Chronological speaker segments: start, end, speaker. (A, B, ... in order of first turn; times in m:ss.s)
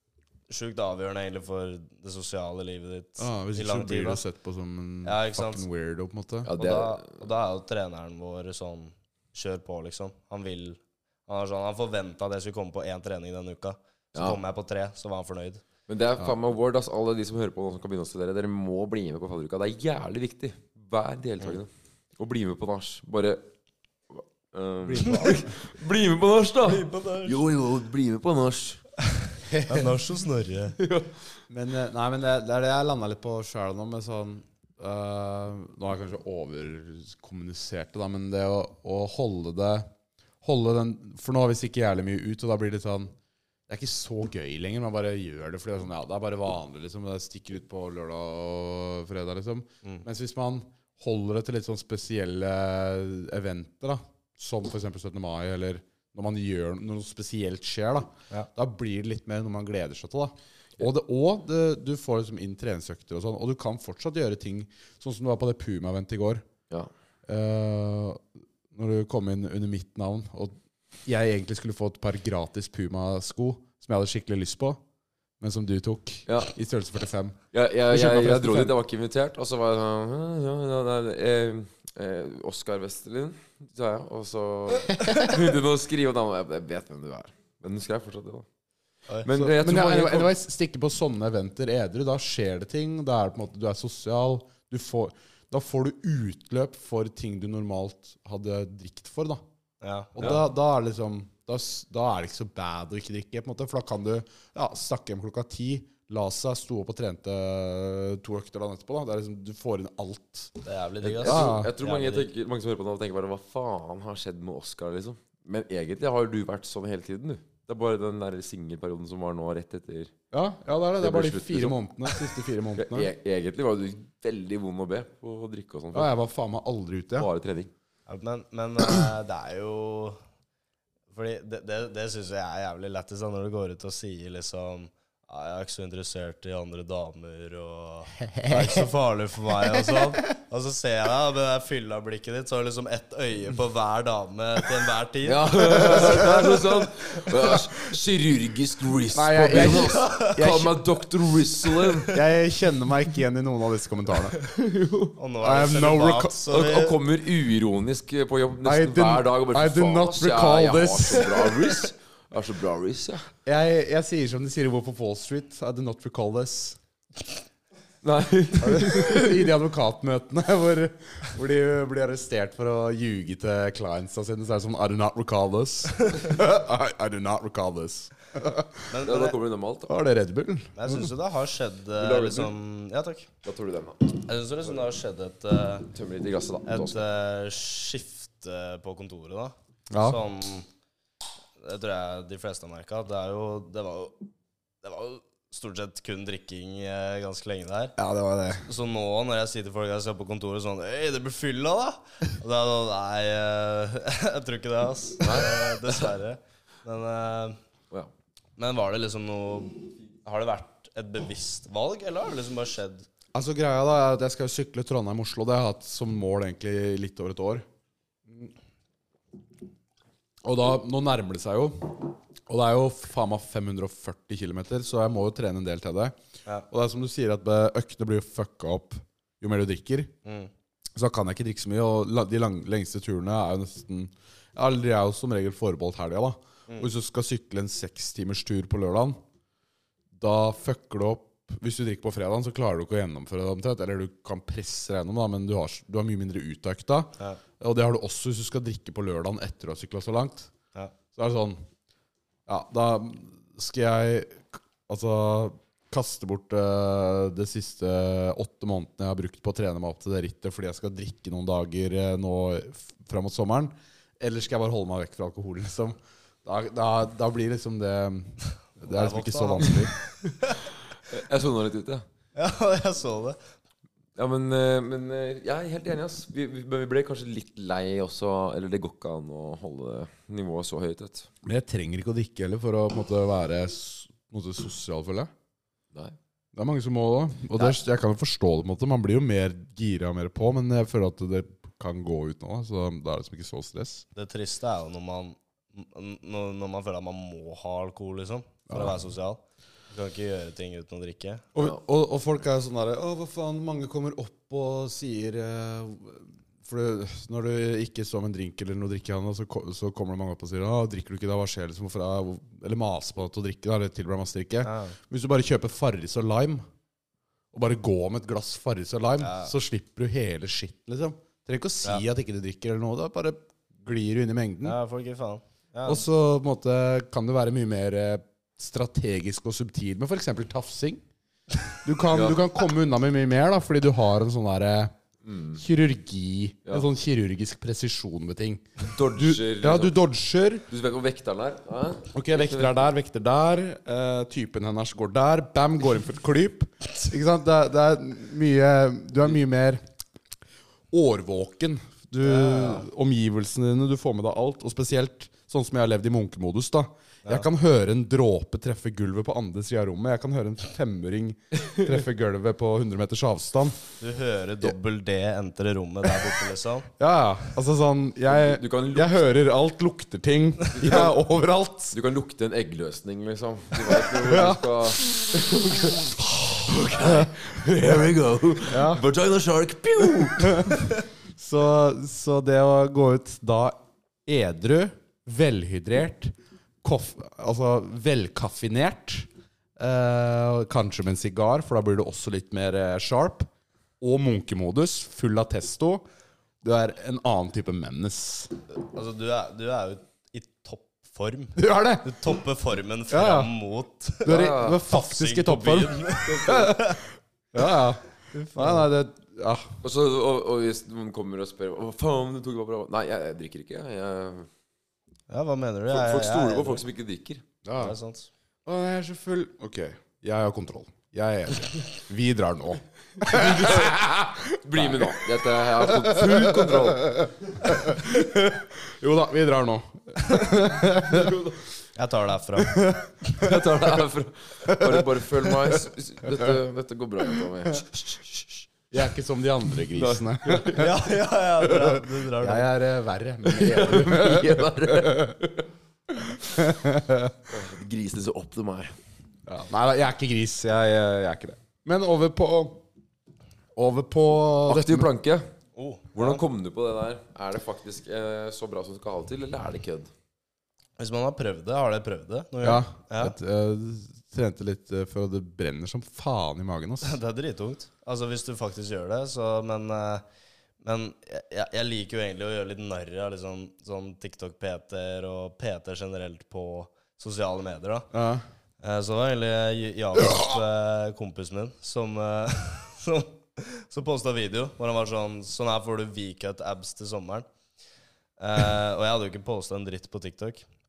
0:00.5-0:04.2 A
0:03.2-0:06.5 B
0:05.0-0:05.6 A
0:06.4-0:07.2 C
0:06.6-0:15.6 A
0:14.1-0:14.4 C
0:15.9-0:23.4 C
0:24.1-0:28.8 C
0:24.8-0:25.5 B
0:26.6-0:27.4 A
0:29.5-0:30.0 B
0:29.6-0:30.8 A
0:30.8-0:31.2 C
0:31.5-0:39.9 B
0:40.4-0:43.1 B
0:43.7-1:06.4 B
1:07.3-1:14.8 B
1:15.4-1:18.7 B
1:16.3-1:16.5 C
1:17.5-1:28.5 C
1:25.0-1:25.4 B
1:29.2-1:30.3 C
1:29.3-1:39.4 B
1:39.8-1:40.4 A
1:40.2-1:50.5 B
1:50.6-1:52.3 A
1:51.0-2:00.1 C
1:51.2-1:51.7 B
2:00.3-2:03.1 B
2:01.0-2:06.1 C
2:05.9-2:07.3 B
2:07.2-2:07.7 C
2:08.1-2:10.2 A
2:11.1-2:26.4 A
2:18.3-2:18.9 B
2:19.6-2:20.2 B
2:25.2-2:32.1 C
2:26.0-2:26.3 B
2:29.1-2:30.8 B
2:29.5-2:30.5 A
2:32.1-2:34.6 B
2:35.2-2:37.0 A
2:35.4-2:36.4 B
2:36.5-2:43.3 C
2:38.6-2:41.7 B
2:43.4-2:46.8 B
2:48.0-2:49.5 C
2:48.6-2:58.9 B
2:58.9-2:59.4 A
2:59.0-2:59.9 C
2:59.9-3:01.1 B
3:00.8-3:03.3 A
3:02.0-3:02.5 C
3:03.4-3:04.1 C
3:04.1-3:05.9 A
3:05.9-3:07.0 C
3:06.7-3:10.7 A
3:09.9-3:10.2 B
3:11.6-3:14.2 A
3:14.8-3:18.0 A
3:18.0-3:18.7 B
3:18.5-3:27.6 A
3:25.2-3:26.1 C
3:28.6-3:33.1 A
3:33.3-3:37.6 B
3:40.4-3:46.2 B
3:46.7-3:50.1 B
3:50.2-3:50.5 A
3:51.0-3:59.2 B
4:00.2-4:10.5 B
4:11.2-4:11.6 B
4:12.5-4:30.0 B
4:28.9-4:30.6 A
4:31.1-4:32.0 C
4:32.4-4:33.4 A
4:34.2-4:41.3 C
4:41.4-4:45.3 B
4:46.6-4:54.1 B
4:54.2-4:59.4 A
4:58.7-4:59.0 B
4:59.9-5:01.5 A
5:01.6-5:16.6 B
5:14.6-5:15.0 A
5:17.5-5:24.8 B
5:19.2-5:19.5 A
5:24.6-5:26.0 A
5:25.8-5:31.0 B
5:31.8-5:34.9 B
5:32.1-5:32.4 C
5:35.2-5:35.6 C
5:35.6-5:40.7 B
5:38.8-5:40.0 C
5:40.7-5:42.8 C
5:42.1-5:49.8 B
5:50.9-6:03.8 B
5:52.2-5:52.9 A
6:04.0-6:06.9 A
6:07.0-6:12.0 B
6:08.3-6:09.2 C
6:10.8-6:11.1 C
6:11.9-6:20.8 C
6:13.8-6:15.7 B
6:17.0-6:17.3 B
6:18.7-6:19.0 B
6:20.3-6:20.8 B
6:21.4-6:33.5 B
6:34.0-6:36.0 B
6:36.6-6:38.5 B
6:38.8-6:47.0 A
6:41.6-6:42.2 B
6:43.1-6:43.5 B
6:44.2-6:47.0 B
6:44.3-6:44.8 C
6:46.2-6:46.7 C
6:47.5-6:49.8 B
6:48.3-6:48.9 A
6:49.8-6:54.5 C
6:55.3-6:56.9 A
6:55.9-6:57.4 C
6:57.6-6:58.0 B
6:57.8-6:58.3 A
6:58.7-7:11.4 B
7:03.2-7:04.0 C
7:04.6-7:07.2 C
7:11.1-7:11.6 C
7:12.0-7:12.9 A
7:12.6-7:13.6 B
7:13.4-7:18.7 C
7:14.6-7:15.8 B
7:18.9-7:21.0 B
7:19.9-7:20.9 C
7:20.7-7:22.7 A
7:21.6-7:25.4 B
7:23.5-7:25.7 C
7:26.1-7:27.4 B
7:27.5-7:29.0 C
7:29.5-7:32.8 B
7:33.8-7:35.1 B
7:34.7-7:35.5 C
7:35.8-7:36.4 A
7:36.1-7:40.1 C
7:41.0-7:43.4 A
7:42.6-7:47.2 B
7:47.0-7:50.2 A
7:50.8-7:58.1 A
7:58.1-7:58.4 B
7:58.8-8:07.5 A
8:08.4-8:10.6 A